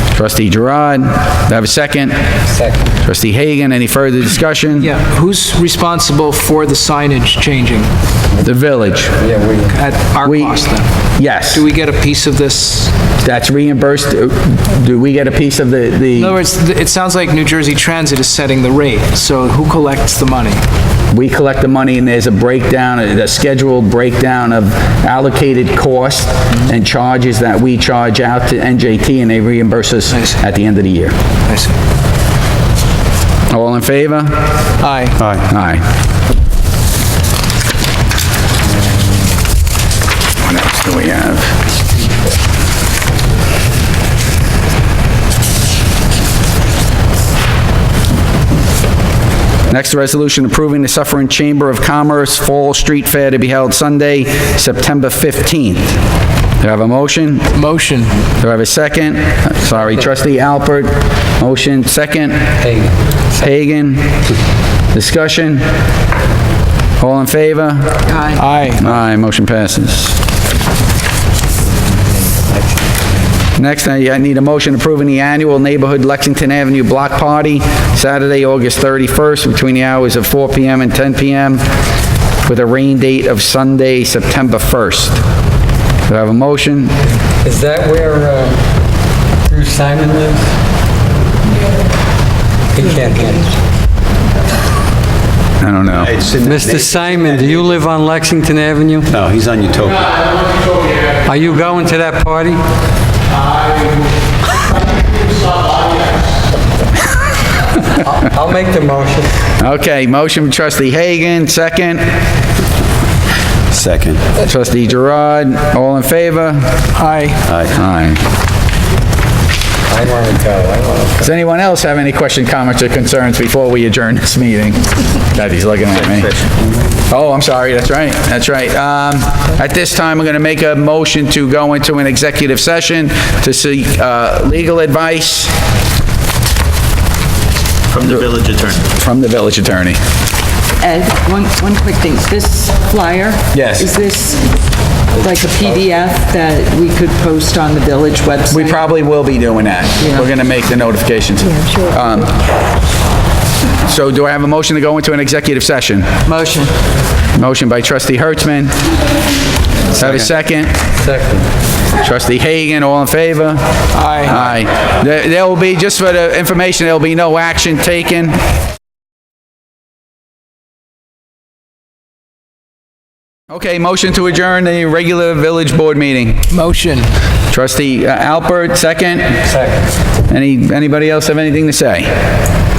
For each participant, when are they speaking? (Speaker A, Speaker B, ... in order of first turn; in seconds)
Speaker A: 0.1-2.1, 3.0-4.9, 8.4-9.2, 10.2-10.6, 11.2-11.6, 13.2-16.4, 21.1-31.1, 33.5-34.5, 35.5-35.8, 40.4-41.5, 49.7-56.0, 56.6-57.5, 58.4-62.6, 63.4-64.2, 64.9-65.7, 67.0-68.1, 68.8-70.2, 73.6-81.6, 82.4-85.2, 86.1-87.0, 95.6-96.1, 109.6-112.0, 114.4-116.6, 117.7-118.2, 121.2-126.4, 127.1-135.5, 138.0-140.0, 143.5-143.8, 148.5-152.3, 153.8-156.1, 157.3-158.7, 159.9-160.7, 162.0-163.6, 164.2-168.4, 173.5-176.4, 177.5-179.4, 180.3-182.1
Speaker B: 2.5-2.8, 9.2-9.7, 62.6-63.0, 87.4-88.7, 89.4-90.6, 92.7-93.6, 96.2-99.2, 100.9-102.6, 107.8-109.3, 119.9-121.3, 160.0-160.3, 161.0-161.4, 179.4-179.8
Speaker C: 4.8-7.9, 9.7-10.9, 11.5-12.9, 16.2-20.6, 31.5-31.7, 34.8-35.2, 57.5-58.2, 68.3-68.8, 116.9-117.4, 163.9-164.4, 176.5-177.1
Speaker D: 35.2-35.5, 96.0-97.7, 99.1-100.2, 113.7-114.3, 117.4-117.8, 138.0-138.7
Speaker E: 68.1-68.4, 140.8-144.4, 145.1-148.8, 150.0-150.3, 151.5-151.9, 156.3-156.7